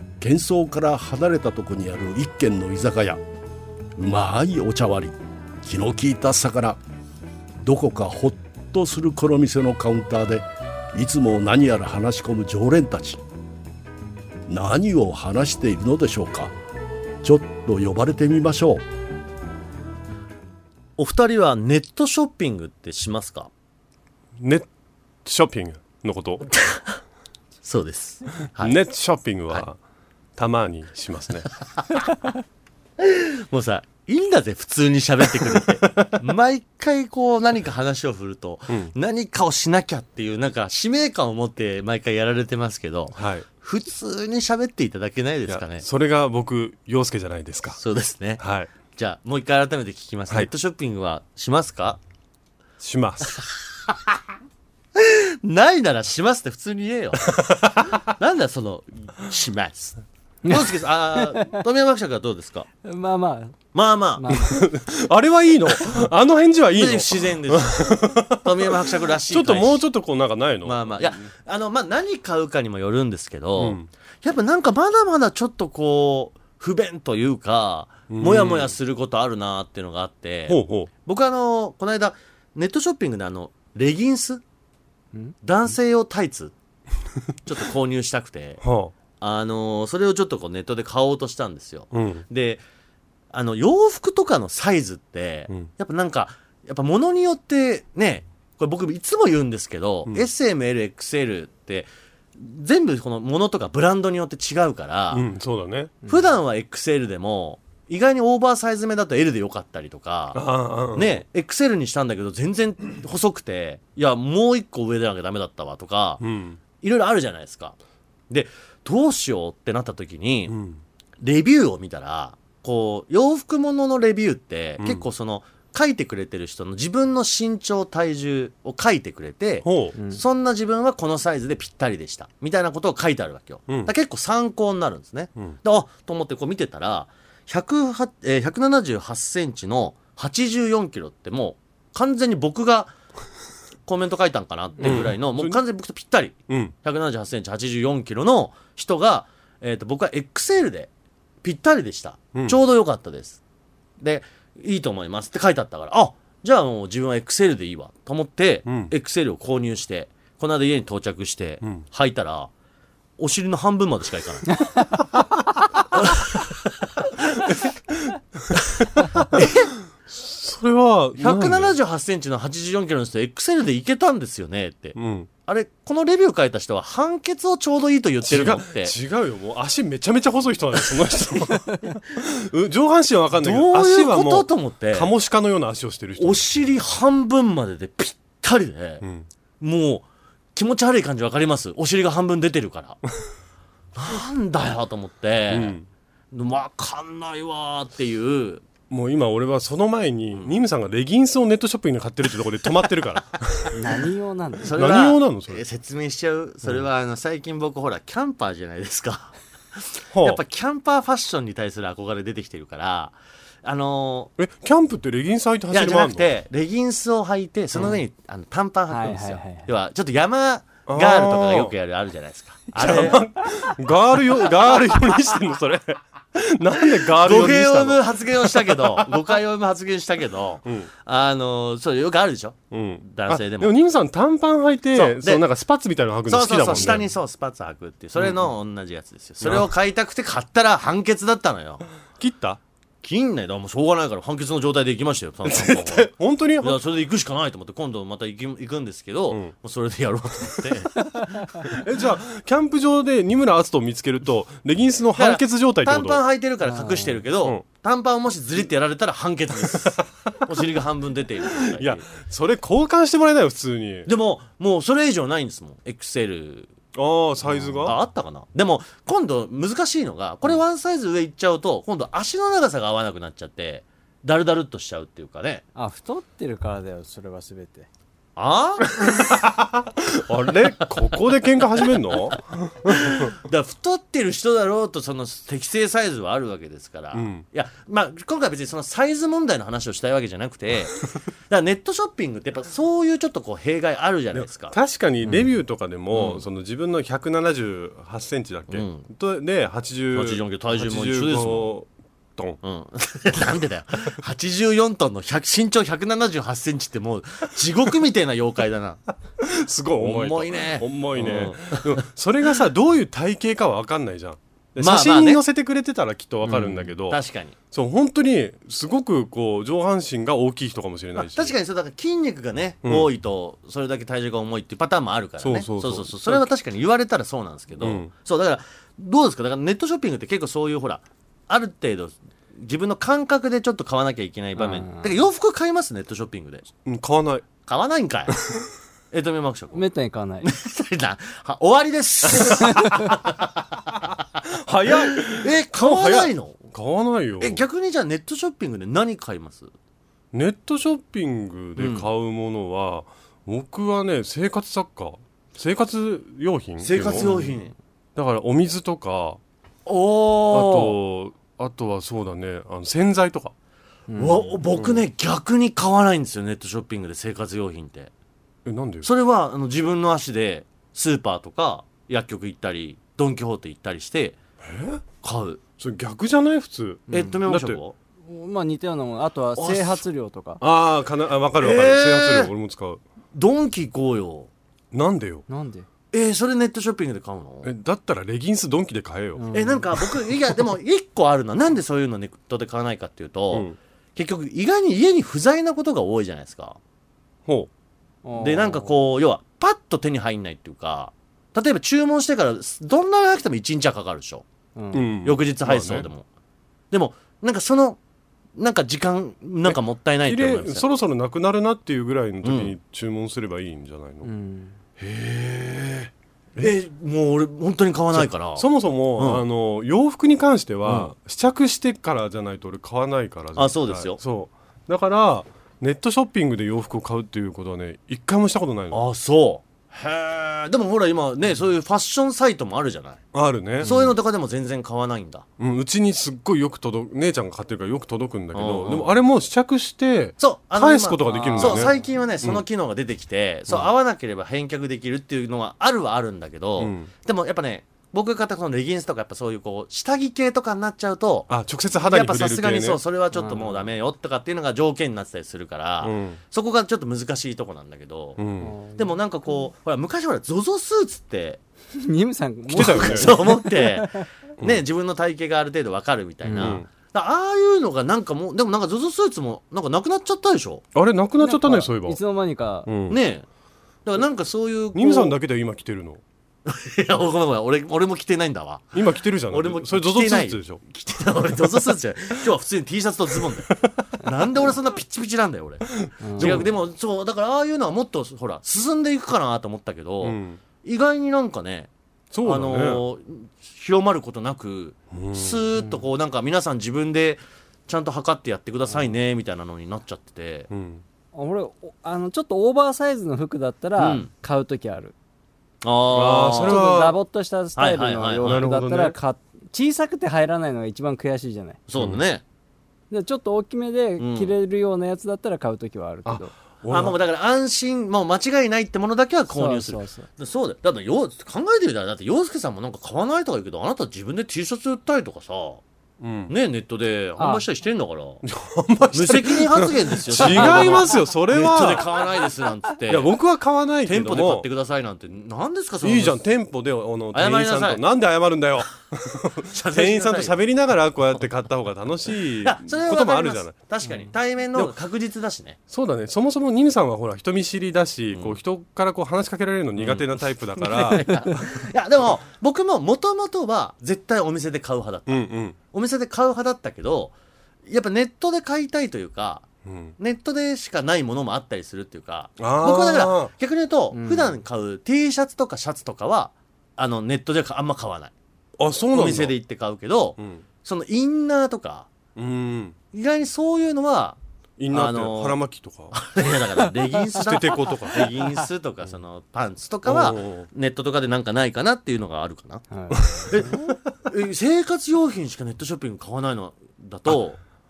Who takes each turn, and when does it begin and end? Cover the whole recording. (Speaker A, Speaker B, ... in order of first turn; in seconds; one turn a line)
Speaker A: 0.2-3.2
Speaker A: 4.0-6.8
Speaker A: 7.6-13.2
Speaker A: 14.5-16.5
Speaker A: 17.2-18.8
Speaker B: 21.0-23.5
Speaker C: 24.4-24.7
Speaker C: 25.2-26.5
Speaker B: 26.5-27.0
Speaker B: 27.6-28.8
Speaker C: 28.6-29.8
Speaker C: 30.4-31.5
Speaker B: 33.0-45.9
Speaker C: 43.2-43.5
Speaker C: 45.5-47.8
Speaker B: 47.8-52.0
Speaker C: 48.4-48.7
Speaker C: 52.8-53.4
Speaker B: 53.9-54.2
Speaker B: 55.0-57.5
Speaker C: 57.4-58.0
Speaker B: 58.0-62.7
Speaker D: 60.5-61.6
Speaker D: 62.8-63.6
Speaker B: 63.7-64.4
Speaker D: 64.2-64.6
Speaker C: 64.4-68.5
Speaker B: 66.7-69.9
Speaker C: 69.3-71.0
Speaker B: 70.6-84.4
Speaker C: 73.6-73.9
Speaker C: 78.1-78.7
Speaker C: 80.5-80.9
Speaker B: 85.4-86.5
Speaker B: 87.5-88.6
Speaker C: 88.6-88.9
Speaker B: 89.2-92.6
Speaker C: 91.9-92.2
Speaker B: 93.3-105.3
Speaker C: 105.1-106.0
Speaker B: 106.0-116.2
Speaker C: 110.3-111.2
Speaker C: 116.2-116.6
Speaker B: 116.8-117.8
Speaker B: 118.3-120.5
Speaker C: 120.5-120.8
Speaker B: 121.2-142.9
Speaker C: 129.6-129.9
Speaker D: 130.0-130.2
Speaker B: 143.9-150.9
Speaker C: 144.8-145.6
Speaker B: 151.4-153.4
Speaker B: 154.0-162.5
Speaker C: 158.7-158.9
Speaker B: 163.2-164.6
Speaker C: 169.0-169.5
Speaker B: 169.3-169.7
Speaker C: 170.1-171.8
Speaker B: 171.2-178.9
Speaker C: 175.0-175.3
Speaker C: 178.3-186.4
Speaker B: 183.4-185.1
Speaker B: 186.2-189.0
Speaker C: 189.0-189.3
Speaker B: 189.6-193.0
Speaker B: 193.9-195.8
Speaker C: 195.5-195.9
Speaker B: 196.3-198.7
Speaker C: 198.9-203.8
Speaker D: 203.7-204.8
Speaker B: 204.6-214.3
Speaker C: 204.7-205.6
Speaker C: 210.1-210.4
Speaker C: 214.4-216.3
Speaker B: 215.7-223.3
Speaker C: 217.7-218.0
Speaker D: 218.9-219.7
Speaker C: 220.9-221.7
Speaker C: 222.8-229.1
Speaker B: 227.0-233.7
Speaker C: 232.7-237.1
Speaker B: 234.9-235.4
Speaker B: 236.3-241.8
Speaker C: 238.2-238.4
Speaker C: 239.4-239.7
Speaker C: 242.2-242.6
Speaker B: 243.0-251.8
Speaker C: 245.5-246.8
Speaker C: 251.7-256.2
Speaker B: 255.2-262.1
Speaker D: 256.7-257.2
Speaker C: 259.7-260.1
Speaker C: 261.7-264.1
Speaker B: 264.1-266.7
Speaker C: 266.9-267.9
Speaker D: 267.5-267.9
Speaker B: 267.8-275.6
Speaker D: 275.8-277.9
Speaker B: 278.4-279.1
Speaker C: 279.0-283.3
Speaker B: 282.9-294.8
Speaker C: 287.1-287.4
Speaker C: 294.3-302.6
Speaker D: 295.2-295.5
Speaker B: 296.1-296.4
Speaker B: 298.7-299.1
Speaker B: 300.1-301.7
Speaker B: 302.6-309.0
Speaker C: 309.4-317.2
Speaker B: 310.0-312.0
Speaker B: 314.8-315.4
Speaker D: 316.5-316.8
Speaker B: 317.1-317.6
Speaker C: 317.7-321.5
Speaker B: 321.2-336.7
Speaker C: 325.4-326.5
Speaker C: 327.8-328.1
Speaker D: 334.6-335.1
Speaker C: 336.9-337.5
Speaker B: 337.7-338.5
Speaker B: 339.1-339.9
Speaker D: 339.7-340.5
Speaker B: 340.4-343.6
Speaker C: 344.5-347.6
Speaker B: 344.9-346.7
Speaker B: 347.4-349.7
Speaker C: 350.3-357.3
Speaker B: 351.8-352.1
Speaker B: 356.8-357.7
Speaker D: 357.1-357.6
Speaker C: 358.2-359.4
Speaker B: 359.9-361.0
Speaker C: 360.5-363.5
Speaker D: 364.1-364.6
Speaker B: 364.2-368.1
Speaker C: 364.7-365.0
Speaker C: 368.6-369.1
Speaker B: 369.0-374.4
Speaker C: 374.6-375.0
Speaker B: 375.2-375.6
Speaker C: 375.8-377.8
Speaker D: 377.1-377.4
Speaker B: 377.1-377.9
Speaker D: 378.2-380.6
Speaker C: 380.6-383.0
Speaker B: 381.6-382.5
Speaker B: 383.3-384.5
Speaker C: 384.9-385.4
Speaker D: 385.5-385.9
Speaker B: 386.1-387.7
Speaker C: 387.6-389.4
Speaker D: 389.4-389.9
Speaker B: 389.5-396.8
Speaker C: 393.5-393.8
Speaker D: 398.2-398.9
Speaker B: 398.4-404.4
Speaker D: 404.8-405.1
Speaker C: 404.9-406.1
Speaker B: 405.2-406.2
Speaker B: 406.9-408.0
Speaker B: 408.6-410.9
Speaker C: 409.6-414.3
Speaker B: 412.4-412.7
Speaker D: 414.2-414.8
Speaker C: 415.0-416.7
Speaker B: 416.6-419.4
Speaker C: 418.1-429.0
Speaker B: 420.9-421.1
Speaker B: 423.6-424.2
Speaker B: 428.9-433.2
Speaker C: 433.3-433.9
Speaker B: 433.8-435.4
Speaker D: 433.8-434.1
Speaker C: 435.6-442.6
Speaker B: 438.5-439.1
Speaker B: 440.4-461.6
Speaker D: 441.3-442.1
Speaker C: 446.8-447.1
Speaker C: 451.5-453.0
Speaker D: 453.3-453.9
Speaker C: 456.0-456.4
Speaker C: 458.4-458.8
Speaker D: 458.6-459.1
Speaker D: 462.0-464.2
Speaker B: 462.7-470.9
Speaker C: 462.7-463.3
Speaker D: 466.4-466.8
Speaker C: 466.6-466.9
Speaker C: 470.9-472.2
Speaker D: 471.4-472.9
Speaker C: 472.9-473.2
Speaker B: 473.1-473.4
Speaker B: 474.1-475.4
Speaker C: 474.9-476.2
Speaker B: 476.7-491.9
Speaker C: 478.9-480.8
Speaker D: 486.2-486.7
Speaker C: 486.4-486.7
Speaker C: 490.2-490.6
Speaker C: 492.3-493.0
Speaker B: 492.4-500.7
Speaker C: 495.1-495.6
Speaker C: 500.7-501.0
Speaker D: 501.3-505.1
Speaker B: 504.0-504.3
Speaker B: 505.8-506.8
Speaker C: 506.1-507.2
Speaker D: 506.7-511.8
Speaker B: 507.8-508.6
Speaker C: 508.4-509.2
Speaker B: 511.9-512.4
Speaker D: 513.1-516.5
Speaker B: 514.2-514.5
Speaker C: 516.3-517.2
Speaker B: 516.9-525.8
Speaker D: 519.5-520.3
Speaker C: 526.2-526.5
Speaker B: 526.5-528.4
Speaker D: 527.4-527.6
Speaker C: 528.5-532.1
Speaker B: 529.1-533.3
Speaker D: 530.5-531.0
Speaker C: 533.1-534.7
Speaker B: 534.0-536.4
Speaker C: 536.0-543.8
Speaker B: 537.3-538.0
Speaker B: 539.7-540.6
Speaker B: 542.6-545.8
Speaker C: 545.9-551.4
Speaker B: 548.3-548.6
Speaker B: 550.0-557.3
Speaker C: 555.3-555.8
Speaker B: 557.9-568.3
Speaker C: 559.9-560.1
Speaker C: 562.6-563.5
Speaker D: 564.1-564.6
Speaker C: 568.8-569.5
Speaker B: 569.1-572.1
Speaker C: 570.4-570.6
Speaker C: 572.4-573.0
Speaker B: 573.1-574.4
Speaker C: 574.8-576.1
Speaker B: 574.9-575.6
Speaker B: 576.1-582.9
Speaker C: 577.4-578.3
Speaker C: 580.1-580.7
Speaker D: 582.9-583.9
Speaker C: 583.2-583.7
Speaker B: 583.5-587.6